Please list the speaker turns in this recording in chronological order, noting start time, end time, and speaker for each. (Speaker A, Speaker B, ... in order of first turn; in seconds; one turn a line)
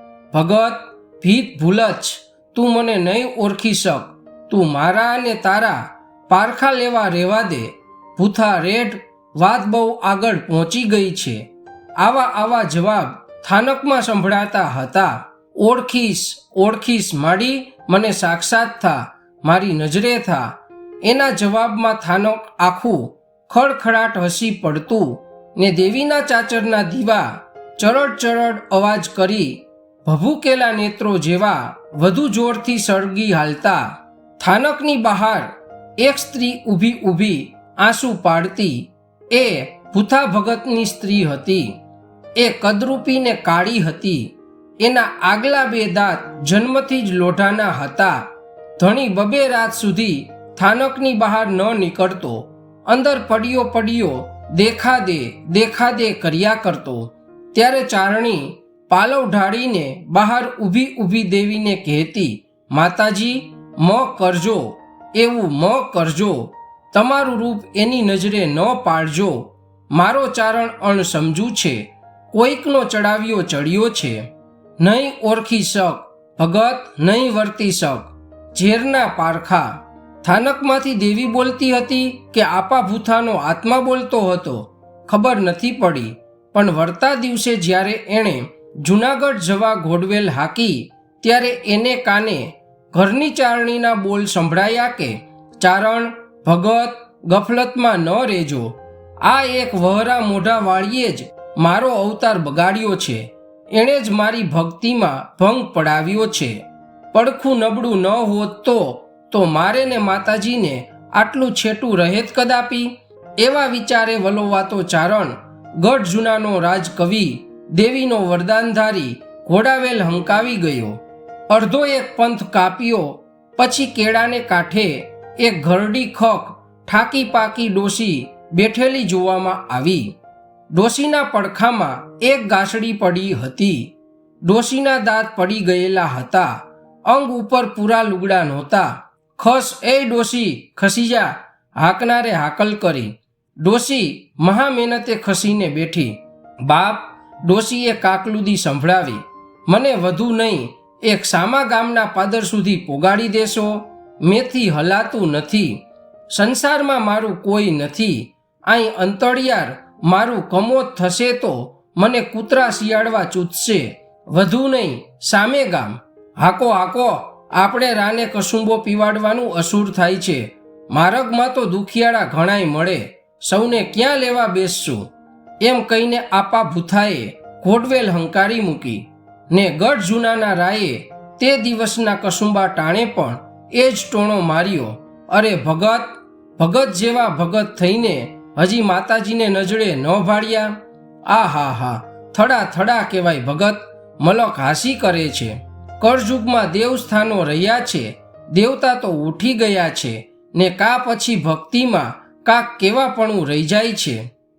Speaker A: 0.3-11.5
Speaker A: 12.0-41.8
Speaker A: 42.4-48.3
Speaker A: 48.8-74.3
Speaker A: 74.8-106.6
Speaker A: 107.1-130.2
Speaker A: 130.7-133.9
Speaker A: 134.4-175.1
Speaker A: 175.6-204.3